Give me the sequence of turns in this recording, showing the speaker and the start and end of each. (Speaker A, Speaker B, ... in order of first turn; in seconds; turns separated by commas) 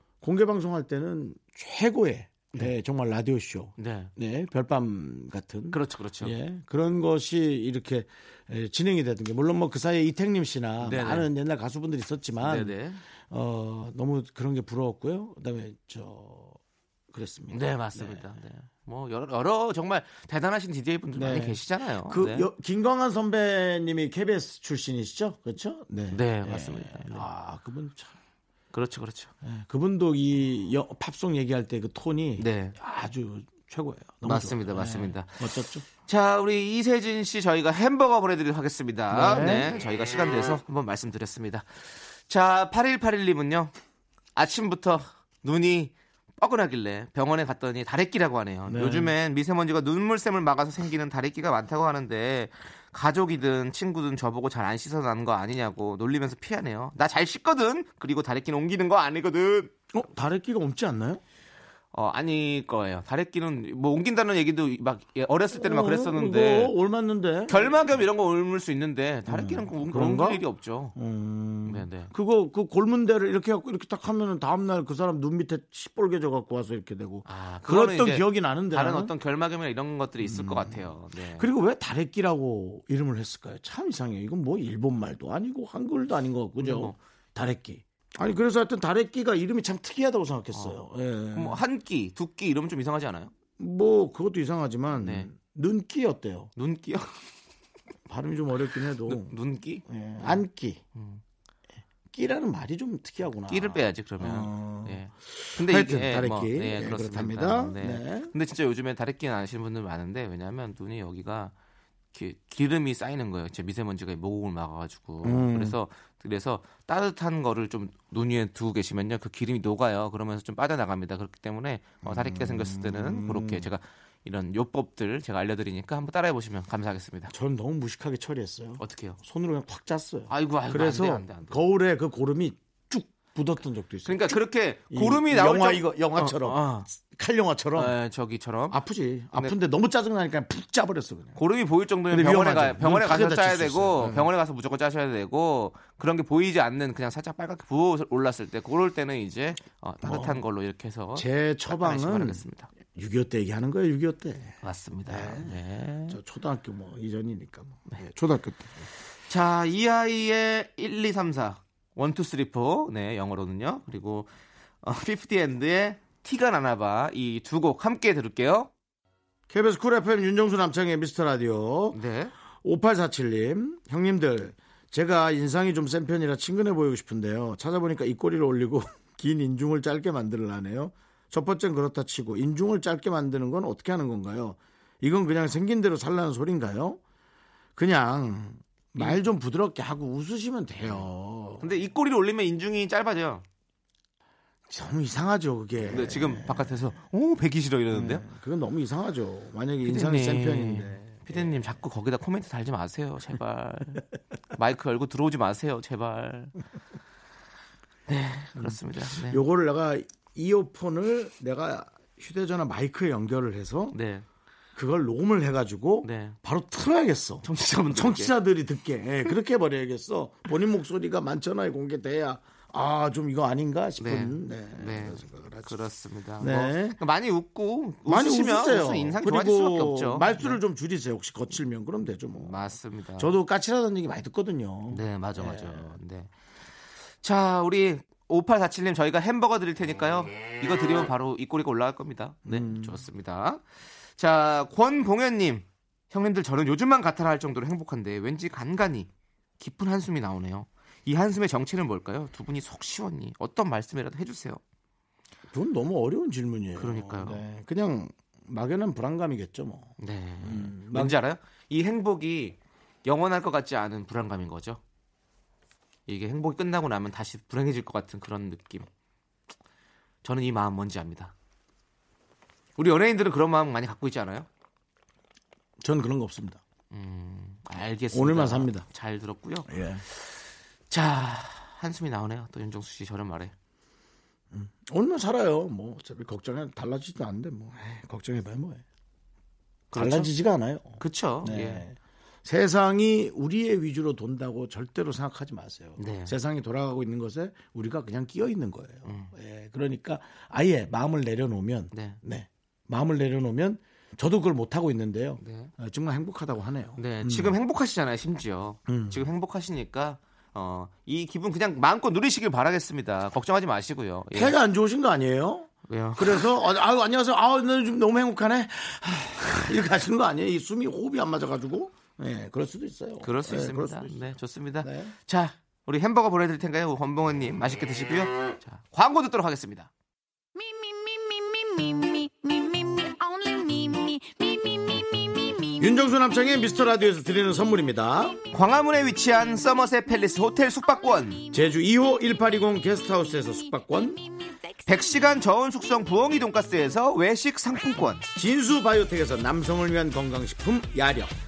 Speaker A: 0.2-16.6, Speaker B: 3.8-4.1, Speaker B: 5.7-6.3, Speaker B: 10.8-11.3, Speaker B: 12.4-13.0, Speaker A: 17.1-18.3, Speaker B: 17.5-22.5, Speaker A: 21.1-28.1, Speaker B: 26.1-27.3, Speaker B: 28.7-29.3, Speaker A: 29.4-35.9, Speaker B: 32.4-32.8, Speaker B: 34.2-43.7, Speaker A: 39.1-39.7, Speaker B: 44.4-59.7, Speaker A: 48.7-49.1, Speaker A: 59.9-61.2, Speaker B: 61.9-66.7, Speaker A: 65.5-67.9, Speaker B: 67.5-71.0, Speaker A: 69.3-70.4, Speaker A: 71.0-79.1, Speaker B: 71.7-72.1, Speaker B: 77.2-81.5, Speaker A: 80.2-91.6, Speaker B: 86.6-87.0, Speaker B: 90.5-90.8, Speaker B: 91.3-93.3, Speaker A: 93.6-96.5, Speaker B: 95.0-95.3, Speaker B: 96.6-97.2, Speaker A: 98.1-99.3, Speaker B: 99.1-100.4, Speaker A: 99.9-100.8, Speaker B: 101.0-101.2, Speaker A: 102.1-108.3, Speaker B: 103.5-111.5, Speaker B: 112.1-127.3, Speaker A: 115.2-115.8, Speaker A: 122.0-123.7, Speaker A: 127.3-138.0, Speaker B: 128.8-129.2, Speaker B: 130.3-131.6, Speaker B: 134.1-136.9, Speaker B: 137.8-138.8, Speaker A: 138.7-141.4, Speaker B: 141.4-152.7, Speaker A: 142.1-144.3, Speaker A: 150.0-150.4, Speaker A: 151.2-155.6, Speaker B: 154.6-156.2, Speaker A: 156.1-158.9, Speaker B: 159.3-164.3, Speaker B: 164.8-168.7, Speaker A: 169.5-172.0, Speaker B: 171.9-172.3, Speaker A: 172.6-187.0, Speaker A: 187.8-191.8, Speaker B: 191.6-193.4, Speaker A: 194.7-196.9, Speaker B: 195.8-198.2, Speaker A: 197.9-201.5, Speaker B: 199.8-206.6, Speaker B: 208.1-209.4, Speaker A: 208.6-214.0, Speaker B: 213.9-214.3, Speaker A: 214.8-225.8, Speaker B: 216.0-216.4, Speaker B: 217.4-218.3, Speaker B: 224.0-230.6, Speaker A: 226.4-227.0, Speaker A: 228.1-232.6, Speaker B: 232.4-233.4, Speaker A: 233.2-236.0, Speaker B: 234.9-236.3, Speaker B: 237.2-243.6, Speaker A: 242.5-243.0, Speaker B: 244.2-254.6, Speaker A: 255.5-261.2, Speaker B: 256.8-257.4, Speaker B: 260.0-264.8, Speaker B: 266.1-268.9, Speaker B: 270.2-271.3, Speaker B: 272.8-274.5, Speaker A: 275.8-276.6, Speaker B: 276.9-280.3, Speaker A: 278.1-278.9, Speaker A: 279.7-280.0, Speaker B: 280.9-283.5, Speaker A: 284.5-288.8, Speaker B: 289.9-290.3, Speaker A: 289.9-307.6, Speaker B: 291.0-291.9, Speaker B: 296.0-296.3, Speaker B: 299.1-299.3, Speaker B: 301.9-302.2, Speaker B: 305.4-305.7, Speaker B: 307.0-314.6, Speaker A: 308.9-309.2, Speaker A: 314.3-325.1, Speaker B: 315.9-316.5, Speaker B: 323.2-329.9, Speaker C: 331.5-335.6, Speaker A: 335.8-338.4, Speaker B: 338.5-341.4, Speaker A: 341.5-344.2, Speaker B: 344.9-348.3, Speaker A: 348.4-351.3